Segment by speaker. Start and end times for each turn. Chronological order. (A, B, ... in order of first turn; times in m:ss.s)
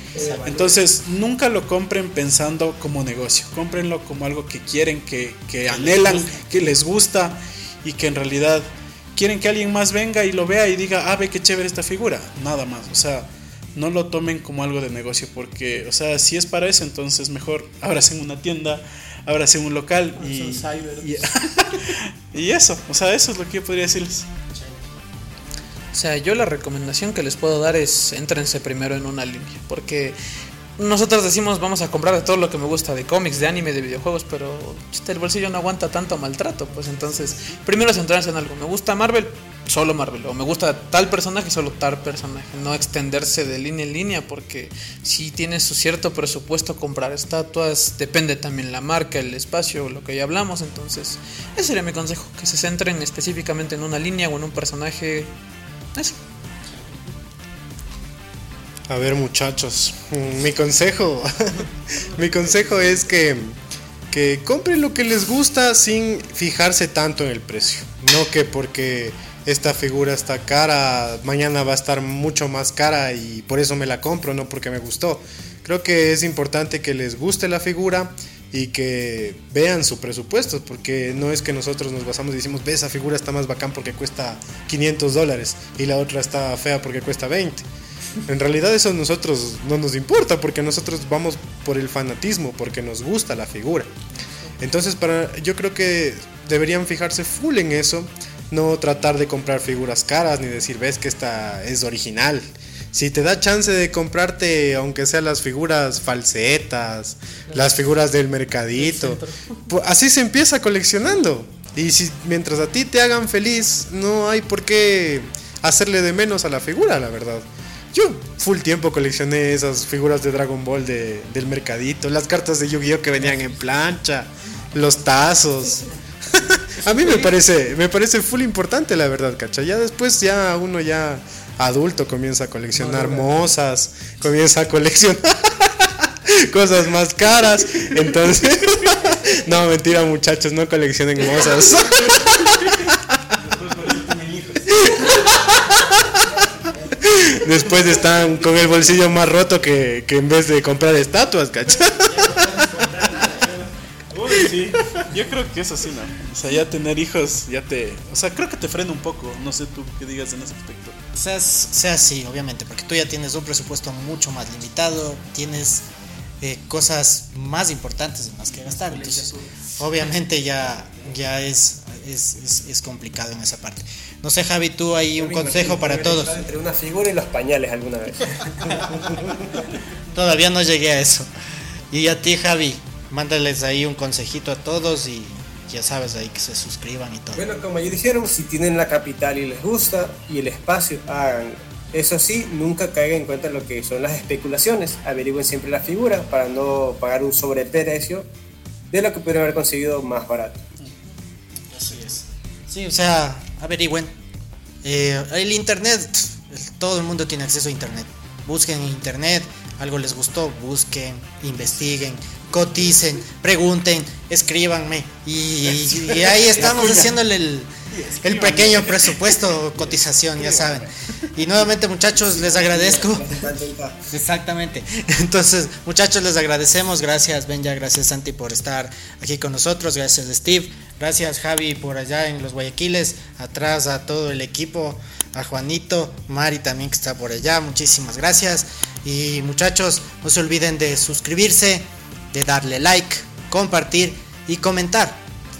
0:00.1-0:00.5 A
0:00.1-0:00.8 B
0:00.4-0:24.3 C
0:06.0-0:06.3 A
0:20.2-0:21.2 D
0:24.5-0:24.9 A
0:25.9-0:30.2 D
0:30.8-0:55.3 D
0:58.9-1:03.6 E
1:04.1-1:27.6 E
1:28.2-1:33.9 E
1:34.6-2:23.0 E
1:48.8-1:49.6 D
2:12.8-2:13.2 D
2:23.4-2:24.8 C
2:24.8-2:25.8 E
2:27.0-2:32.7 E
2:32.1-2:33.6 A
2:34.1-2:41.0 C
2:41.1-2:45.9 A
2:46.4-2:56.5 A
2:48.7-2:49.7 D
2:55.2-2:59.3 B
2:58.8-2:59.3 A
3:00.1-3:01.3 A
3:01.9-3:07.5 A
3:07.3-3:18.3 B
3:18.9-3:20.6 B
3:21.7-3:24.1 A
3:24.8-3:43.4 A
3:35.9-3:37.2 C
3:37.9-3:39.3 C
3:42.3-3:44.0 B
3:44.1-4:05.2 A